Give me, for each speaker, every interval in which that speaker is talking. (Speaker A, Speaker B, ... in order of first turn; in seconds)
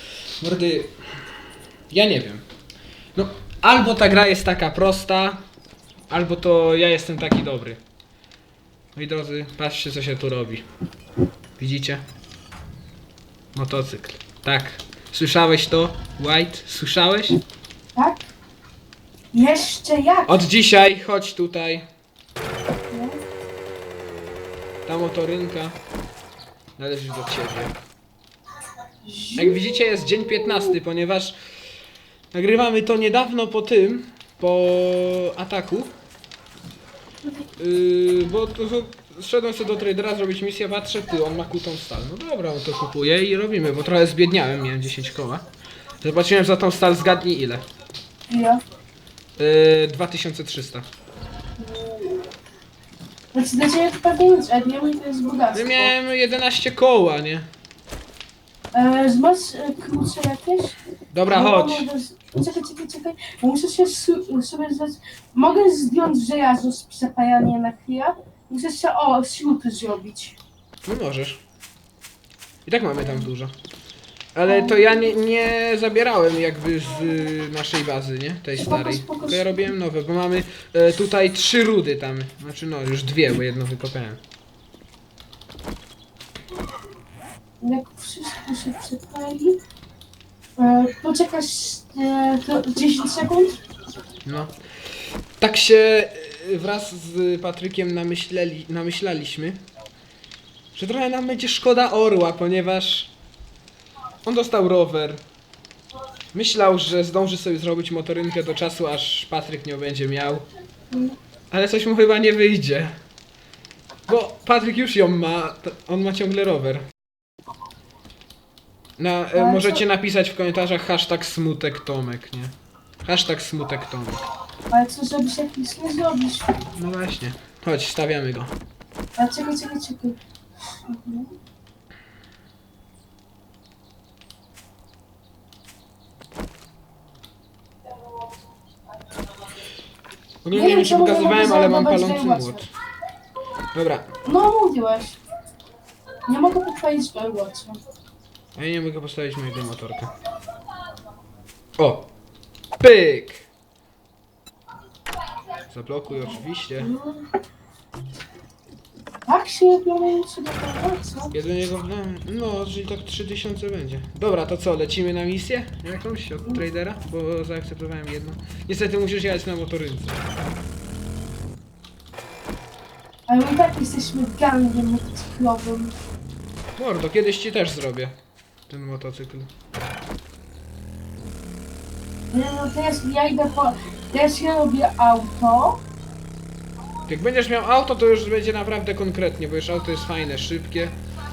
Speaker A: 0.4-2.5, 3.1-5.4, 6.1-7.8, 8.9-10.6, 11.6-12.0, 13.5-17.4, 20.2-21.8, 24.8-25.8, 26.8-27.7, 29.3-31.4, 32.3-35.9, 37.6-45.4, 46.0-47.6, 49.4-50.9, 55.5-57.5, 61.1-61.9, 70.8-71.4, 72.7-73.5, 74.3-84.2, 94.2-99.7, 100.7-103.1, 104.2-105.2, 106.3-110.5, 111.5-113.0, 114.1-116.8, 119.0-124.2, 126.7-128.5, 140.4-142.7, 143.7-144.1, 148.5-150.1, 151.8-152.1, 152.8-153.5, 155.7-156.9, 161.3-170.2, 176.8-178.1, 178.7-179.5, 187.1-191.0
Speaker B: 17.9-18.3, 19.3-20.4, 22.9-23.2, 29.0-29.6, 48.3-48.6, 51.6-52.3, 53.3-55.9, 58.7-60.8, 61.3-70.4, 74.5-75.1, 78.6-79.6, 87.6-89.6, 90.6-93.5, 110.9-111.2, 119.3-119.8, 124.7-126.7, 129.2-130.2, 130.7-131.3, 140.5-142.6, 144.2-145.2, 146.2-147.8, 156.1-157.2, 159.2-161.3, 173.3-175.9, 182.3-185.8